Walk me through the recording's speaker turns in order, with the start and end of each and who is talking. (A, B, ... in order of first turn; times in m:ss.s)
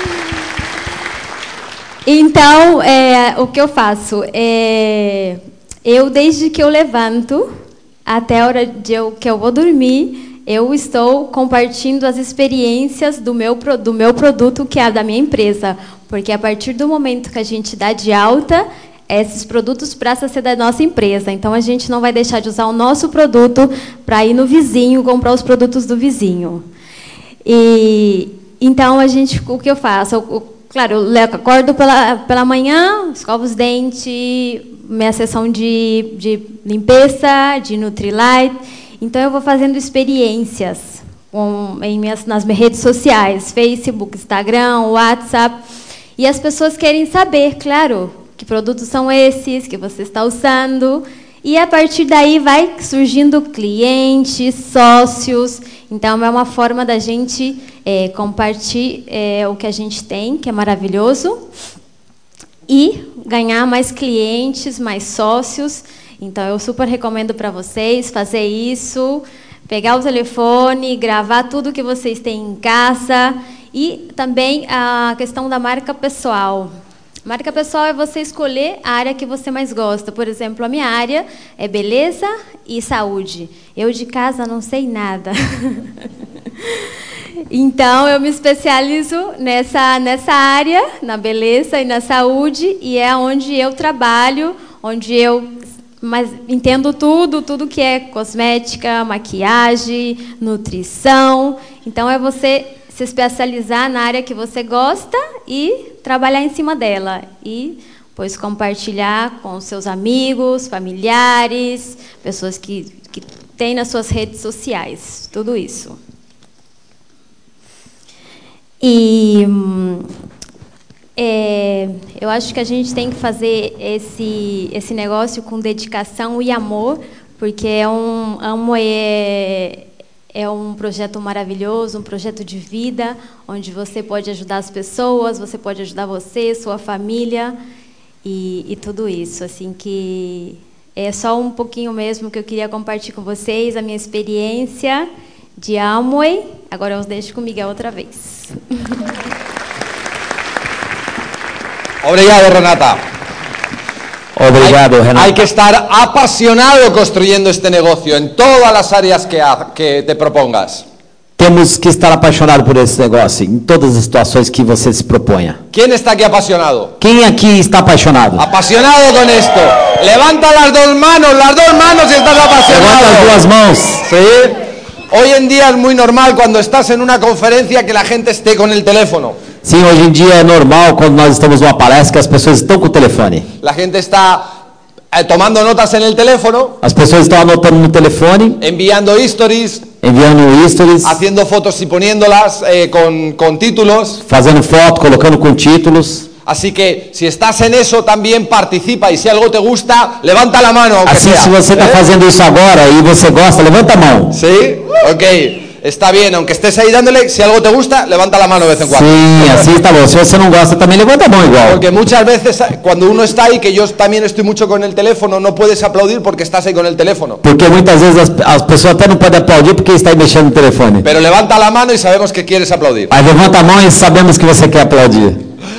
0:02.1-0:07.5 A
0:08.1-0:26.6 A
0:27.4-0:45.6 A
0:46.2-1:01.4 A
1:02.7-1:16.7 A
1:17.2-1:26.0 A
1:27.5-1:35.5 A
1:36.0-1:56.0 A
1:58.8-2:00.1 A
2:01.2-2:17.6 A
2:18.2-2:28.6 A
2:32.0-2:33.1 B
2:34.4-2:35.4 C
2:34.6-2:40.8 B
2:41.4-2:45.6 C
2:45.7-2:47.0 B
2:47.0-2:48.5 C
2:48.4-2:53.4 B
2:52.7-2:54.1 C
2:54.0-2:59.4 B
2:59.6-3:03.5 C
3:03.6-3:04.5 B
3:05.1-3:06.8 B
3:06.8-3:08.6 C
3:08.6-3:09.9 B
3:10.0-3:11.2 C
3:11.0-3:14.2 B
3:14.2-3:16.3 C
3:16.5-3:22.0 B
3:21.1-3:24.4 C
3:24.3-3:29.7 B
3:28.8-3:31.8 C
3:31.6-3:37.4 B
3:37.4-3:41.1 C
3:41.0-3:43.1 B
3:43.1-3:45.4 C